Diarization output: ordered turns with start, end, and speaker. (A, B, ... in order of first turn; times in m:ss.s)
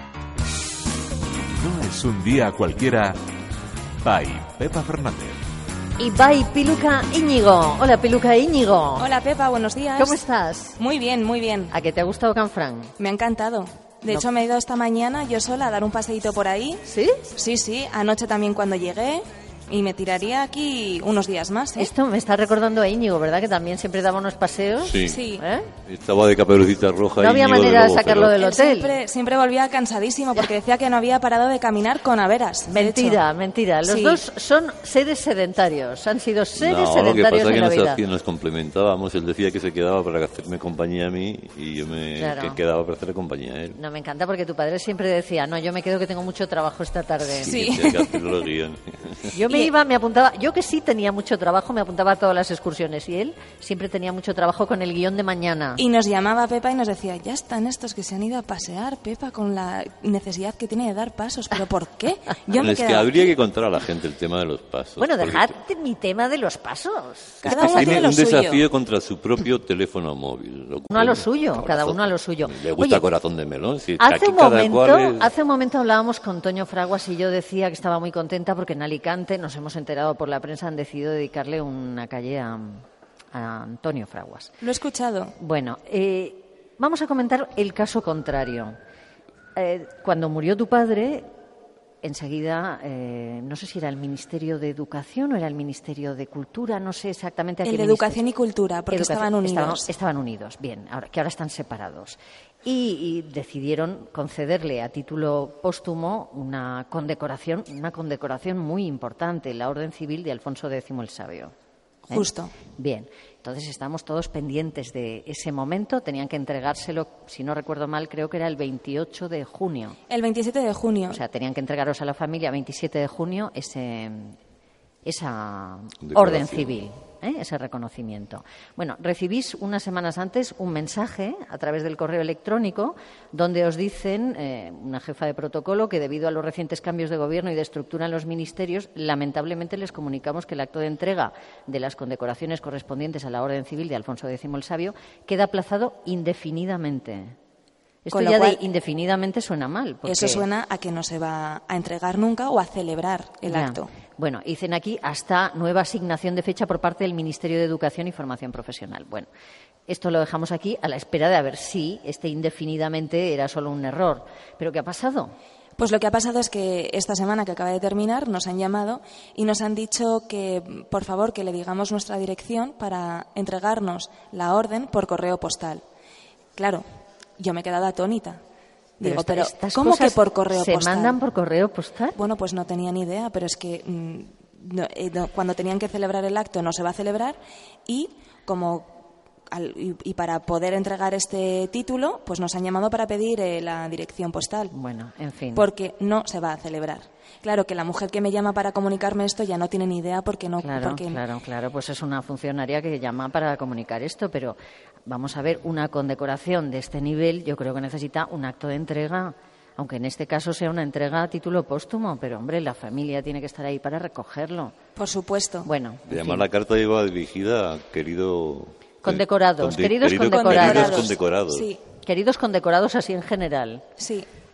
0:01.6-0:03.2 A
0:04.0-0:05.4 A
0:06.0-0:09.1 B
0:09.0-0:10.2 C
0:10.0-0:10.8 B
0:10.8-0:11.7 C
0:11.7-0:12.9 B
0:13.0-0:16.8 C
0:16.8-0:17.2 B
0:17.3-0:21.9 C
0:21.8-0:25.7 B
0:24.8-0:25.2 D
0:25.0-0:25.4 C
0:25.8-0:28.4 D
0:27.2-0:29.0 B
0:28.3-0:33.2 C
0:32.7-0:38.0 B
0:33.8-0:34.2 C
0:36.6-0:43.8 D
0:42.2-0:42.6 B
0:43.7-0:47.6 B
0:47.2-0:49.2 D
0:47.4-0:48.4 C
0:49.3-0:55.8 B
0:55.8-1:03.3 C
1:02.5-1:05.6 D
1:05.0-1:08.0 B
1:07.4-1:08.6 C
1:07.4-1:15.3 D
1:10.9-1:13.0 B
1:14.0-1:24.5 B
1:24.6-1:25.3 C
1:25.4-1:28.7 B
1:29.6-1:31.2 B
1:32.0-1:38.2 B
1:37.6-1:39.9 C
1:38.9-1:51.5 B
1:52.1-2:00.0 B
1:52.1-1:52.5 C
2:00.1-2:01.2 C
2:01.1-2:04.4 B
2:05.0-2:27.3 B
2:06.0-2:06.8 D
2:28.0-2:30.4 B
2:28.1-2:28.6 C
2:30.0-2:33.9 C
2:33.5-2:39.3 B
2:39.9-2:45.3 B
2:45.8-2:55.8 C
2:56.6-2:56.8 C
2:57.4-2:58.4 C
2:59.0-3:01.2 C
2:59.0-3:02.2 B
3:02.2-3:08.9 C
3:09.5-3:14.7 C
3:14.7-3:15.7 B
3:15.5-3:21.2 C
3:20.6-3:34.7 B
3:35.0-3:35.7 C
3:35.6-3:36.5 B
3:36.1-3:41.7 D
3:39.0-3:41.1 B
3:40.3-3:41.8 C
3:42.0-3:43.8 B
3:44.0-3:44.2 C